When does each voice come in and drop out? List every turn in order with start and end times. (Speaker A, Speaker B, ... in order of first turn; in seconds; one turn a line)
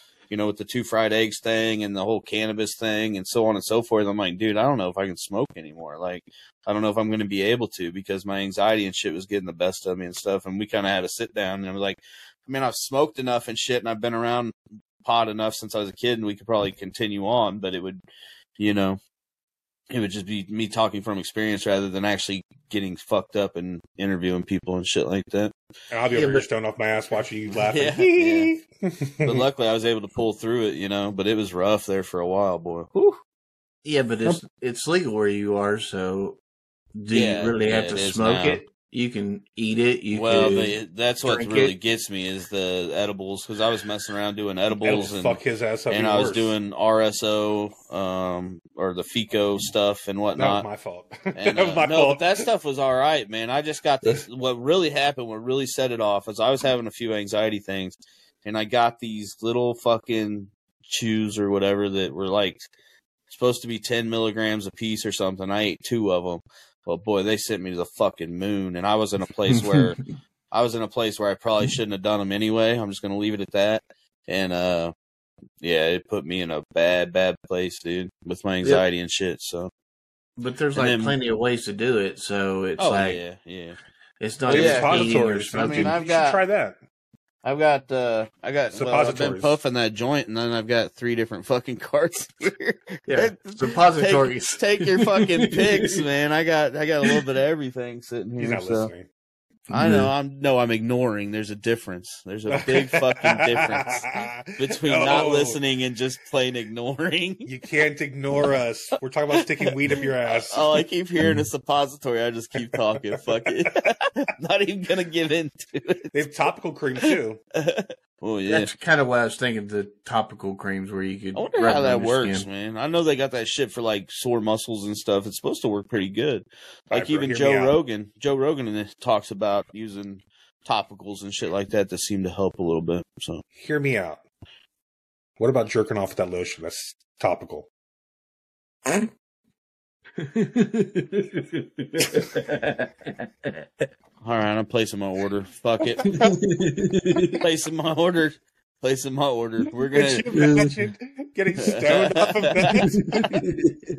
Speaker A: 0.3-18.0
Speaker A: 18.6-19.0
Speaker A: 19.9-25.5
Speaker B: 25.9-29.4
Speaker C: 26.1-26.5
Speaker A: 27.6-28.5
Speaker A: 29.2-33.2
Speaker C: 33.8-36.4
Speaker C: 36.9-41.8
Speaker A: 37.1-38.6
Speaker A: 40.1-50.7
Speaker B: 44.8-46.5
Speaker B: 50.4-52.5
Speaker A: 51.4-62.7
Speaker A: 63.3-74.9
Speaker C: 69.5-69.8
Speaker A: 75.6-79.7
Speaker C: 80.4-83.2
Speaker A: 80.8-81.2
Speaker A: 82.8-83.8
Speaker C: 84.2-86.0
Speaker A: 84.4-86.4
Speaker B: 84.5-86.8
Speaker A: 87.4-98.9
Speaker B: 88.7-89.5
Speaker C: 93.1-96.0
Speaker B: 98.4-99.1
Speaker C: 99.7-100.1
Speaker A: 99.7-107.5
Speaker B: 102.5-105.6
Speaker B: 107.5-110.8
Speaker A: 109.4-116.2
Speaker B: 112.7-113.2
Speaker B: 116.1-117.4
Speaker A: 117.0-118.7
Speaker C: 118.5-122.5
Speaker A: 121.3-133.4
Speaker B: 126.9-127.8
Speaker B: 133.6-134.2
Speaker B: 135.4-137.7
Speaker C: 140.3-143.6
Speaker A: 144.2-146.1
Speaker B: 146.0-146.4
Speaker C: 146.1-147.4
Speaker A: 147.3-150.3
Speaker B: 149.9-153.1
Speaker C: 150.4-150.7
Speaker A: 151.6-153.4
Speaker C: 152.9-153.6